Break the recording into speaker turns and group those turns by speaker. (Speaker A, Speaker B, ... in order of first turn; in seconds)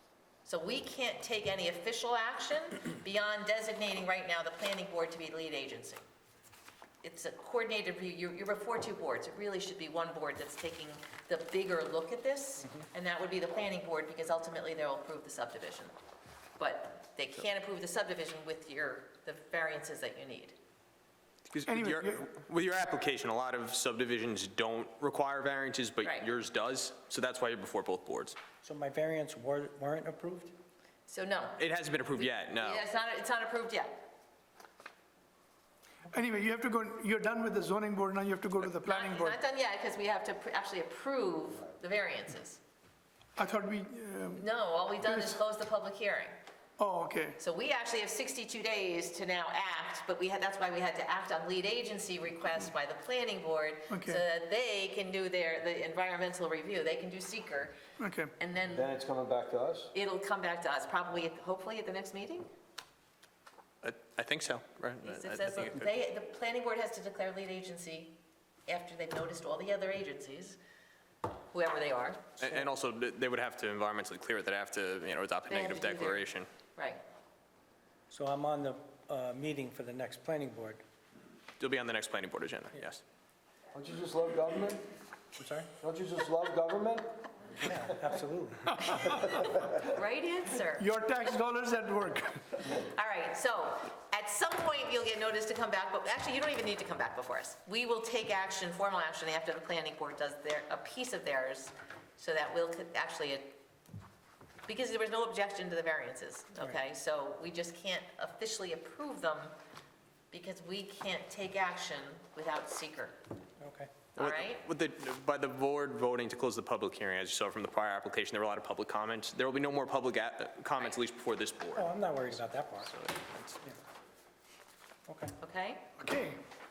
Speaker A: 0.5-6.0, 7.0-15.9, 16.6-20.6, 26.0-26.3, 31.1-31.6, 32.2-34.0, 38.8-42.6, 44.4-46.3, 47.4-57.8, 58.4-58.9, 59.9-62.5, 65.0-70.6, 71.5-72.3, 75.5-77.0, 89.3-90.9, 92.7-103.6, 104.7-109.5, 110.3-113.2, 114.2-114.6, 125.4-125.9
Speaker B: 21.5-28.4, 31.6-32.9, 63.8-65.9, 72.4-76.5, 81.6-83.0, 114.2-123.6
Speaker C: 21.7-22.3, 36.1-39.4, 43.4-44.4, 45.0-45.4, 46.8-47.4, 53.9-54.2, 58.0-58.3, 90.7-92.6, 126.0-126.4
Speaker D: 28.6-30.5, 78.1-80.8, 85.4-85.7, 87.6-89.3, 113.6-114.0, 121.8-122.9, 125.1-125.3
Speaker E: 58.7-59.9, 83.7-84.8, 85.8-87.1